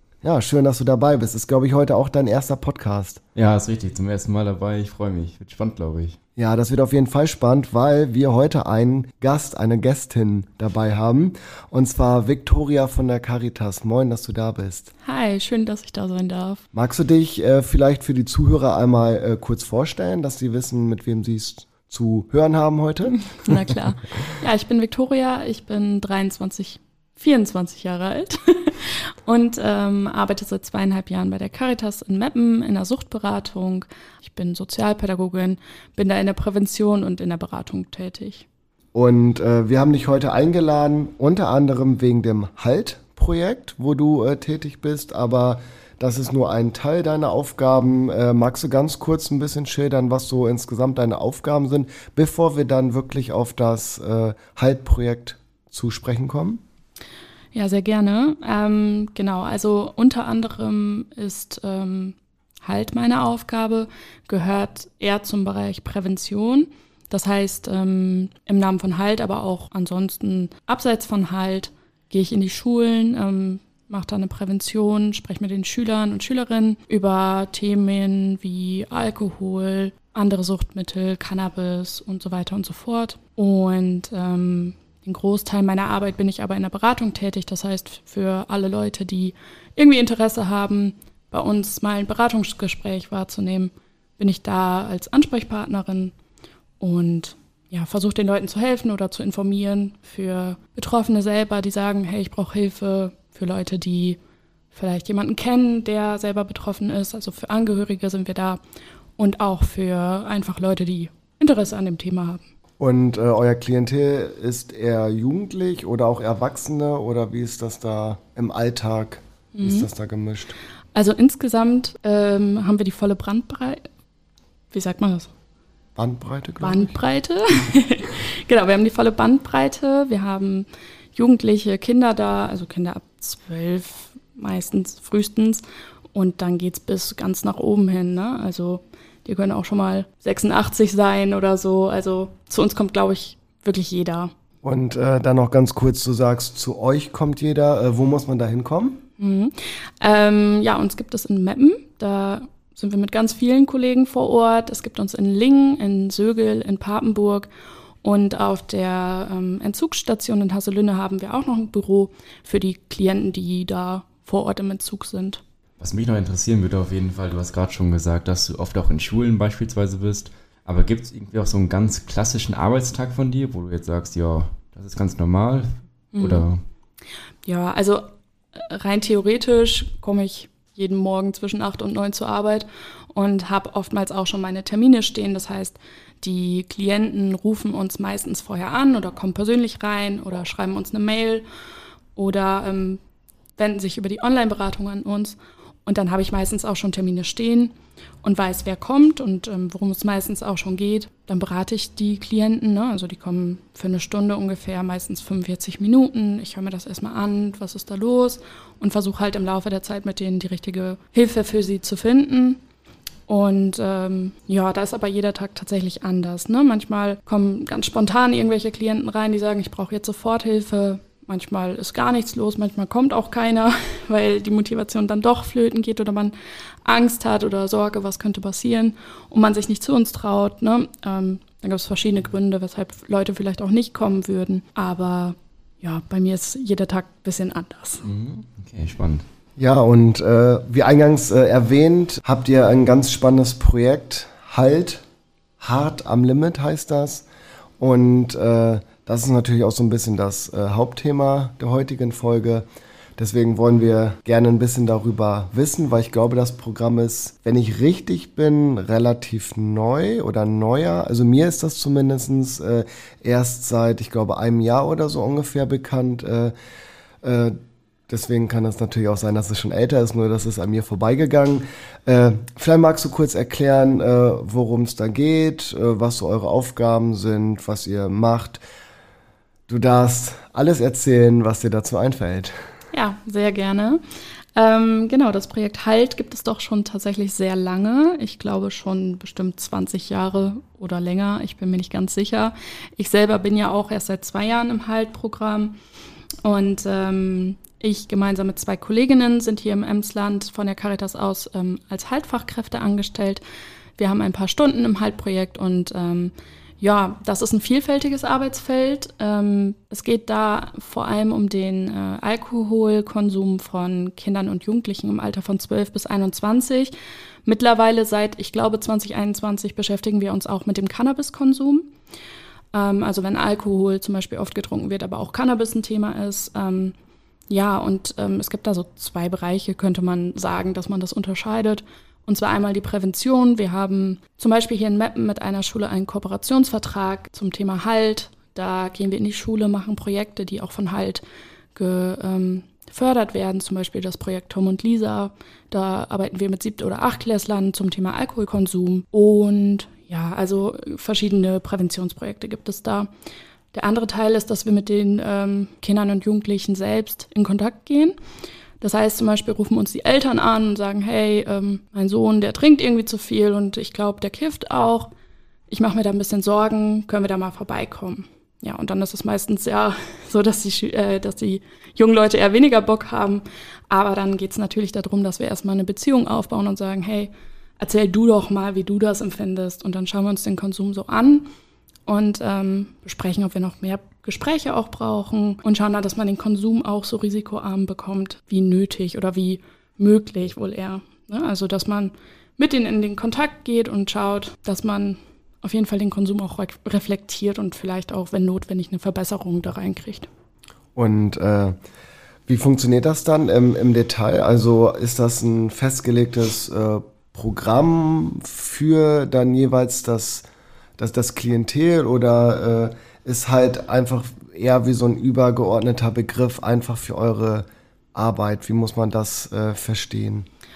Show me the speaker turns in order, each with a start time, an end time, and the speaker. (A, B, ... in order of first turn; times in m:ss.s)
0:00.2-0:03.2 A
0:03.4-0:06.2 B
0:06.4-0:14.9 A
0:15.0-0:16.6 C
0:16.7-0:23.3 A
0:23.2-0:38.5 C
0:38.9-0:56.6 A
0:57.5-1:36.1 C
1:36.8-1:44.2 C
1:44.7-1:48.6 C
1:49.2-1:52.4 C
1:52.8-2:00.6 A
1:59.6-1:59.9 C
2:00.9-2:03.9 C
2:04.7-2:05.3 C
2:06.0-2:06.9 A
2:06.6-2:24.3 C
2:24.6-2:29.0 A
2:29.2-2:37.5 C
2:38.0-2:45.4 C
2:45.8-2:56.6 B
2:56.2-2:56.5 C
2:57.4-3:11.4 C
3:12.2-3:13.0 C
3:13.6-3:32.6 C
3:33.3-3:46.3 C
3:46.8-3:58.0 C
3:58.0-3:59.2 B
3:59.6-4:05.0 A
4:05.6-4:07.3 A
4:07.8-4:12.6 A
4:13.2-4:26.5 A
4:27.2-4:27.6 A
4:28.1-4:38.6 A
4:39.7-4:42.5 A
4:42.9-4:44.0 C
4:44.6-4:55.8 C
4:56.4-5:03.4 C
5:04.0-5:16.9 C
5:17.4-5:21.9 C
5:22.7-5:27.0 C
5:27.5-5:41.2 C
5:41.8-5:53.1 C
5:53.7-5:58.2 C
5:58.8-6:05.1 C
6:05.7-6:21.5 C
6:22.1-6:40.3 C
6:41.0-6:41.8 A
6:42.5-6:50.5 A
6:51.0-7:00.5 A